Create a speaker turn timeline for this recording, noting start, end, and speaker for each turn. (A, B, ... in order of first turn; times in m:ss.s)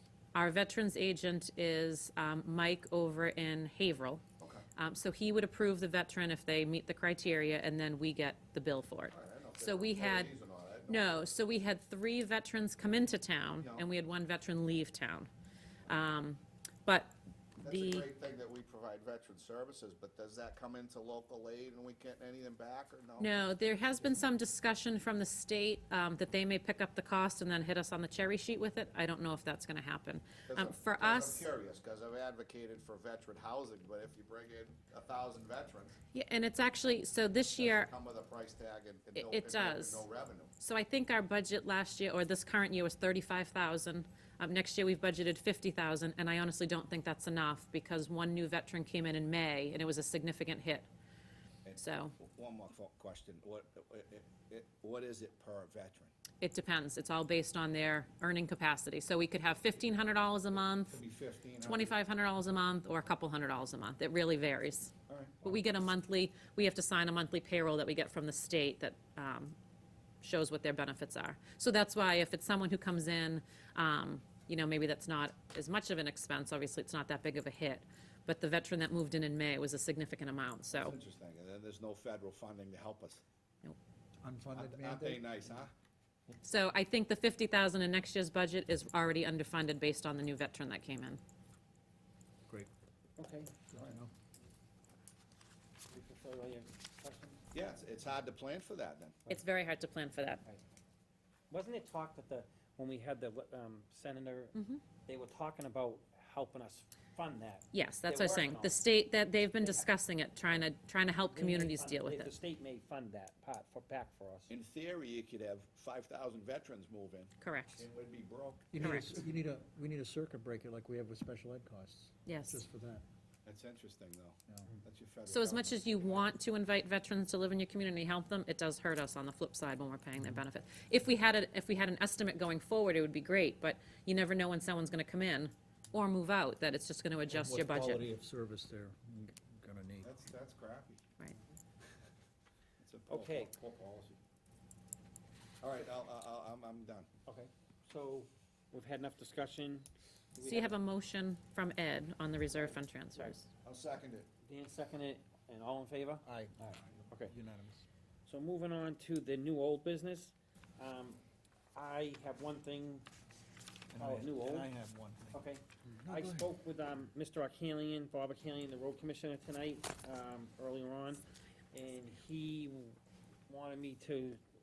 0:00.3-0:04.2 A
0:04.4-0:04.6 B
0:04.8-0:10.3 A
0:09.1-0:11.2 B
0:10.9-0:15.3 A
0:13.6-0:13.9 B
0:15.9-0:18.1 A
0:17.6-0:23.4 B
0:23.2-0:31.5 A
0:30.5-0:36.0 B
0:36.1-0:37.9 A
0:37.6-0:40.5 B
0:39.2-0:40.0 A
0:40.6-0:50.9 A
0:51.6-0:56.1 B
0:51.8-0:52.2 A
0:56.4-1:01.0 A
1:00.6-1:01.9 B
1:01.6-1:09.6 A
1:05.1-1:05.6 B
1:10.2-1:21.0 A
1:20.7-1:23.2 B
1:24.2-1:25.3 C
1:24.5-1:25.7 B
1:26.4-1:31.2 A
1:33.2-1:33.6 D
1:33.7-1:34.1 C
1:35.9-1:37.4 D
1:37.5-1:39.2 B
1:39.3-1:40.4 A
1:41.5-1:48.8 D
1:44.6-1:44.8 A
1:47.7-1:52.3 A
1:49.6-1:49.9 D
1:51.3-1:54.5 D
1:54.5-1:59.2 B
1:57.4-1:57.9 A
1:58.7-2:03.0 C
1:58.8-1:59.2 A
2:02.3-2:02.6 A
2:03.4-2:06.3 B
2:05.3-2:18.1 A
2:17.3-2:20.1 C
2:20.0-2:21.0 B
2:22.8-2:24.2 B
2:23.1-2:23.5 D
2:25.6-2:27.1 B
2:27.3-2:30.8 D
2:30.4-2:33.5 A
2:33.6-2:34.3 B
2:34.4-2:37.3 D
2:36.2-2:37.8 C
2:38.3-2:41.2 D
2:41.7-2:43.1 D
2:43.9-2:46.5 C
2:44.0-2:44.7 D
2:45.3-2:54.4 D